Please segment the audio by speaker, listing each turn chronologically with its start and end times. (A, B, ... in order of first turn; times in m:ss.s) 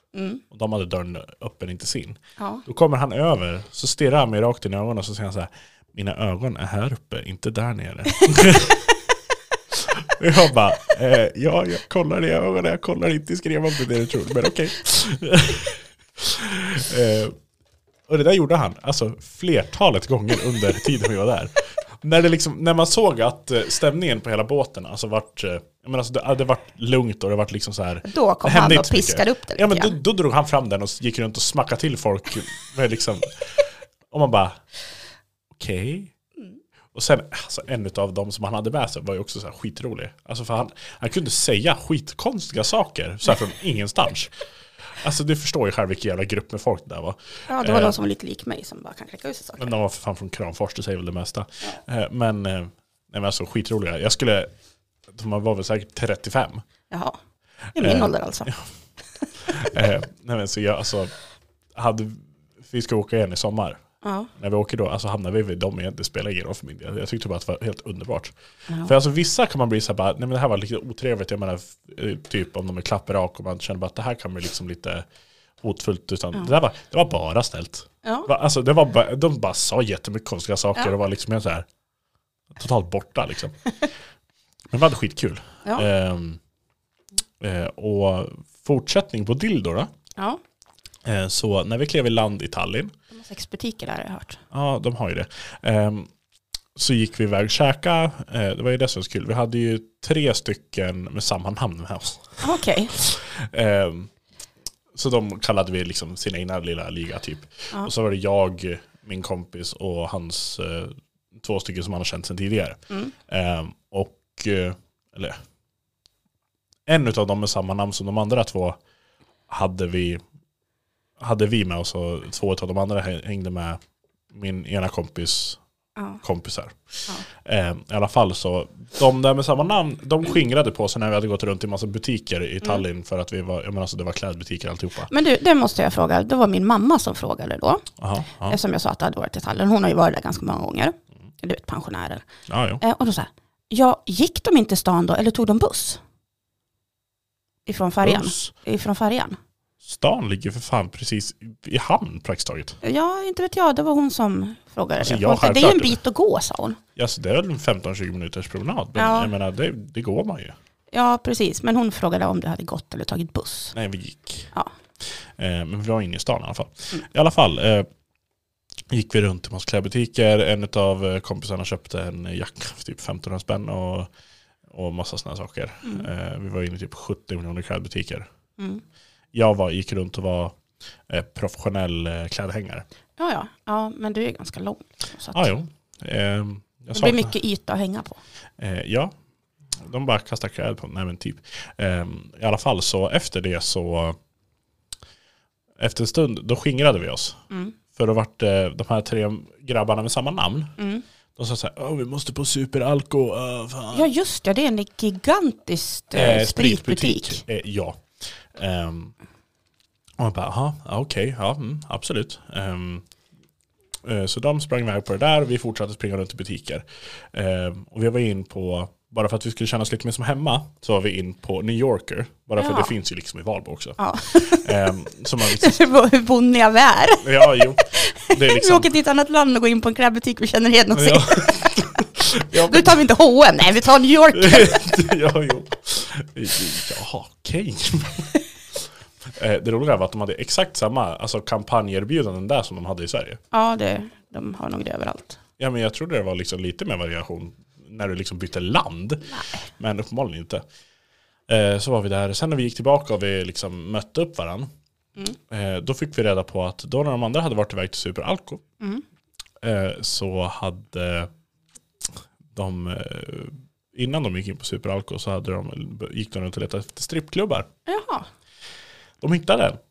0:00.1-0:00.4 A
0:00.5-0:08.9 B
0:02.4-0:02.6 A
0:09.7-0:17.4 B
0:18.1-0:34.6 B
0:28.0-0:29.9 A
0:35.6-0:36.1 B
0:36.9-0:44.4 B
0:45.0-0:48.0 B
0:47.5-0:49.7 A
0:49.6-0:54.5 B
0:55.1-0:56.6 B
0:56.9-0:57.2 A
0:57.7-0:58.5 A
0:57.8-0:58.6 B
0:59.4-1:01.1 B
1:01.7-1:03.8 B
1:04.0-1:04.3 A
1:04.3-1:15.0 B
1:15.6-1:21.6 B
1:18.0-1:18.3 A
1:22.6-1:23.7 B
1:24.7-1:26.4 B
1:27.4-1:29.9 B
1:30.2-1:30.4 A
1:31.0-1:32.9 B
1:33.1-1:34.4 A
1:34.5-1:36.1 B
1:36.8-1:44.1 B
1:42.4-1:42.9 A
1:44.9-1:55.4 B
1:56.9-1:58.8 B
1:59.5-2:00.2 B
2:01.2-2:03.8 B
2:04.3-2:05.6 B
2:06.2-2:15.1 B
2:15.1-2:17.8 A
2:18.0-2:18.6 B
2:18.4-2:22.3 A
2:22.5-2:22.8 B
2:22.8-2:26.0 A
2:27.6-2:29.4 A
2:28.0-2:28.5 B
2:29.8-2:32.8 B
2:32.8-2:36.8 A
2:35.0-2:36.0 B
2:37.0-2:40.6 B
2:39.0-2:39.3 A
2:40.9-2:43.7 A
2:43.7-2:47.9 B
2:48.9-2:54.1 B
2:54.7-2:58.3 B
2:55.8-2:56.1 A
2:58.6-2:58.8 A
2:59.3-3:00.6 B
3:01.1-3:02.8 B
3:03.2-3:05.5 A
3:05.3-3:07.3 B
3:06.9-3:08.2 A
3:08.6-3:09.1 B
3:09.8-3:14.2 B
3:15.8-3:17.4 B
3:17.5-3:17.7 A
3:17.9-3:20.7 B
3:20.8-3:21.0 A
3:21.4-3:24.1 B
3:23.9-3:27.4 A
3:26.1-3:29.1 B
3:30.2-3:33.0 B
3:34.0-3:45.8 B
3:42.6-3:42.9 A
3:44.0-3:54.8 A
3:47.2-3:48.9 B
3:50.9-3:53.0 B
3:54.3-4:03.4 B
4:03.5-4:05.4 A
4:05.6-4:10.6 B
4:09.3-4:09.6 A
4:11.5-4:14.7 B
4:15.5-4:18.6 B
4:19.6-4:21.3 B
4:22.5-4:27.7 B
4:27.8-4:28.3 A
4:29.2-4:29.8 B